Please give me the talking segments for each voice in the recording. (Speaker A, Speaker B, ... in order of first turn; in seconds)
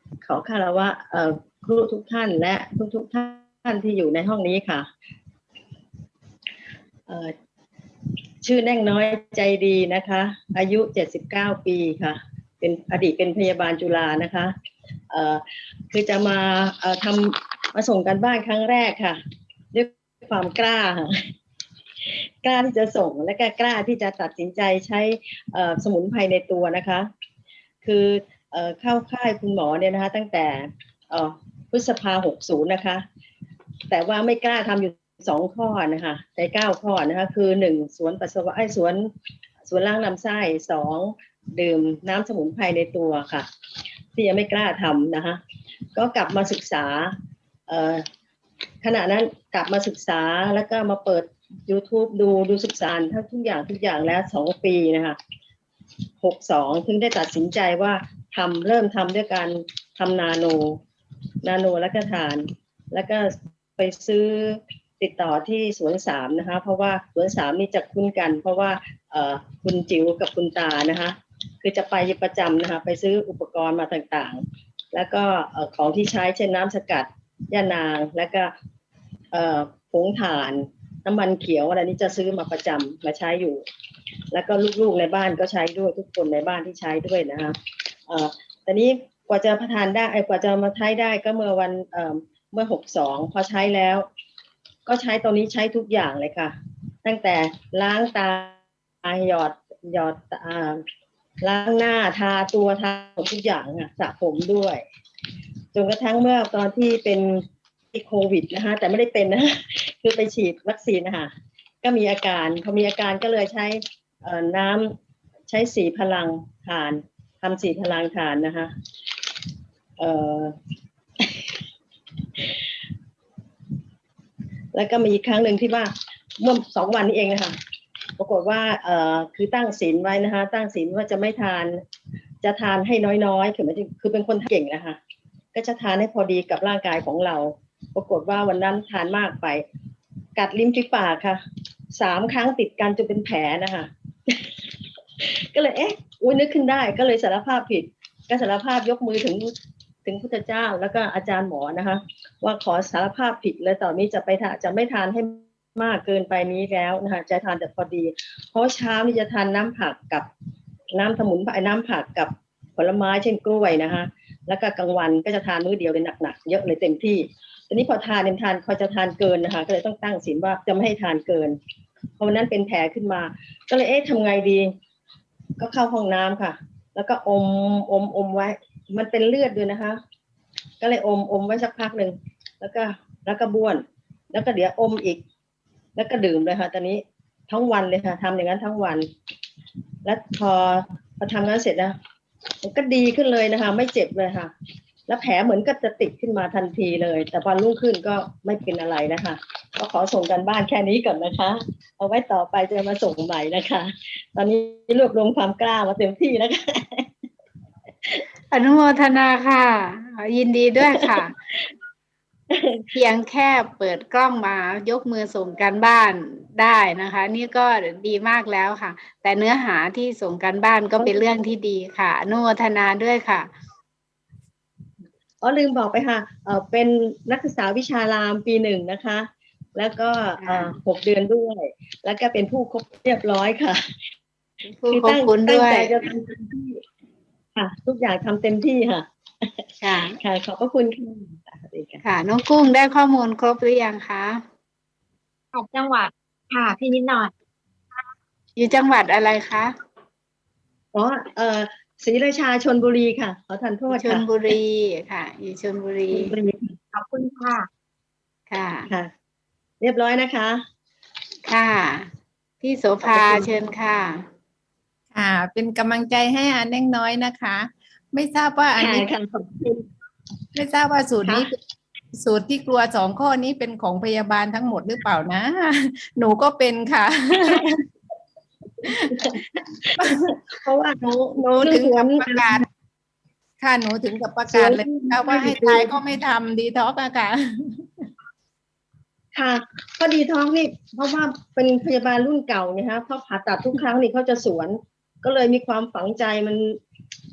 Speaker A: 0.2-4.9, 7.1-7.3, 8.4-14.5, 15.1-19.2, 19.7-21.1, 22.1-27.1, 27.8-33.0, 33.9-39.1, 39.7-43.5, 44.1-45.4, 46.0-47.1, 47.7-48.0, 48.8-55.2, 56.2-60.8, 61.4-74.4, 74.9-78.5, 79.3-83.6, 84.3-94.1, 94.9-100.8, 101.4-104.8, 105.7-111.3, 111.8-114.9, 115.5-118.7, 120.0-120.5, 124.7-127.6, 128.2-131.8, 132.4-135.0, 135.5-139.6, 140.4-141.4, 141.9-144.5, 145.2-149.5, 150.1-160.3, 160.9-171.6, 172.2-174.7, 175.6-180.0, 180.8-185.2, 186.0-189.1, 190.1-191.9, 192.6-194.5, 195.1-207.1, 210.9-211.2, 212.5-212.8, 225.4-234.0, 234.9-236.8, 237.6-239.5, 240.2-242.0, 250.9-254.5, 256.1-256.8, 259.8-260.6, 263.1-263.5, 268.8-269.9, 278.9-282.6, 284.5-286.0, 289.4-296.8
Speaker B: 208.5-211.3, 212.9-223.5, 230.4-230.8, 234.8-236.0, 239.8-240.2, 242.0-244.4, 248.6-249.7, 253.9-256.4, 258.5-258.9, 261.5-262.1, 262.6-264.2
Speaker C: 245.6-247.3, 256.9-257.6
Speaker D: 265.1-269.1, 270.6-271.6, 272.1-277.8, 280.0-280.3, 281.4-282.6, 283.6-288.1